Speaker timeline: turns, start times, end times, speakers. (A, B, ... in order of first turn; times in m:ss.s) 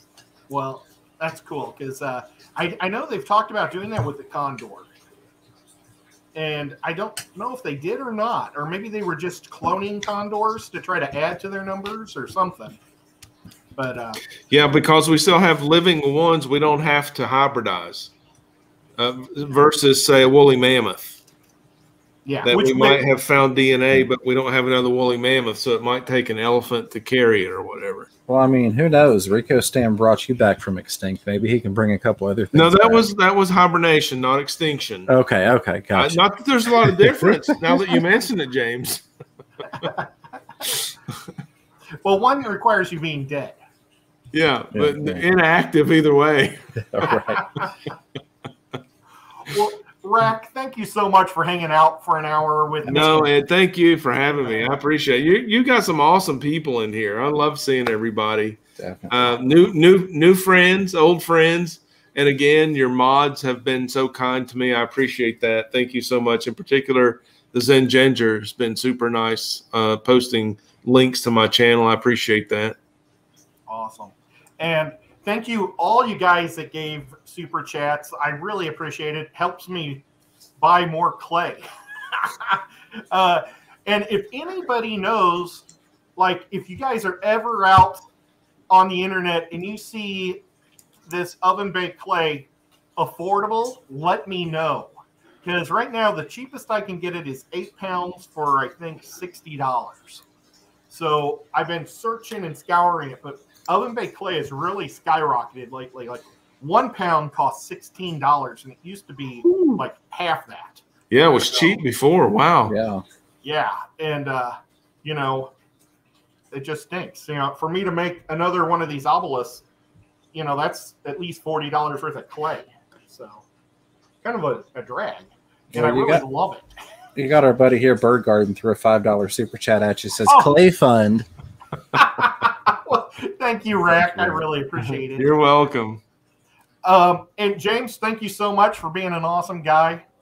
0:00.5-0:04.9 A
0:06.4-0:12.8 A
0:13.8-0:14.2 A
0:14.5-0:18.1 B
0:19.0-0:21.2 B
0:22.2-0:23.1 A
0:22.4-0:28.1 B
0:28.3-0:33.1 C
0:32.5-0:35.1 B
0:35.1-0:36.2 C
0:36.0-0:39.0 B
0:36.8-0:38.0 C
0:42.0-0:43.6 A
0:44.3-0:47.1 B
0:44.7-0:45.2 C
0:46.9-0:47.7 C
0:47.4-0:47.7 A
0:49.5-0:53.3 A
0:52.9-1:12.8 B
0:58.8-0:59.4 C
1:13.7-1:20.0 A
1:20.6-1:28.0 A
1:28.7-1:30.4 A
1:31.1-1:40.2 A
1:40.9-1:50.8 A
1:51.1-1:52.8 B
1:52.7-1:53.0 C
1:53.4-1:55.5 A
1:56.5-1:59.6 A
2:00.3-2:03.4 A
2:04.2-2:06.7 A
2:05.7-2:06.2 C
2:07.2-2:11.3 C
2:10.3-2:10.6 A
2:11.9-2:15.3 A
2:13.9-2:14.4 C
2:15.0-2:16.0 B
2:16.8-2:20.1 A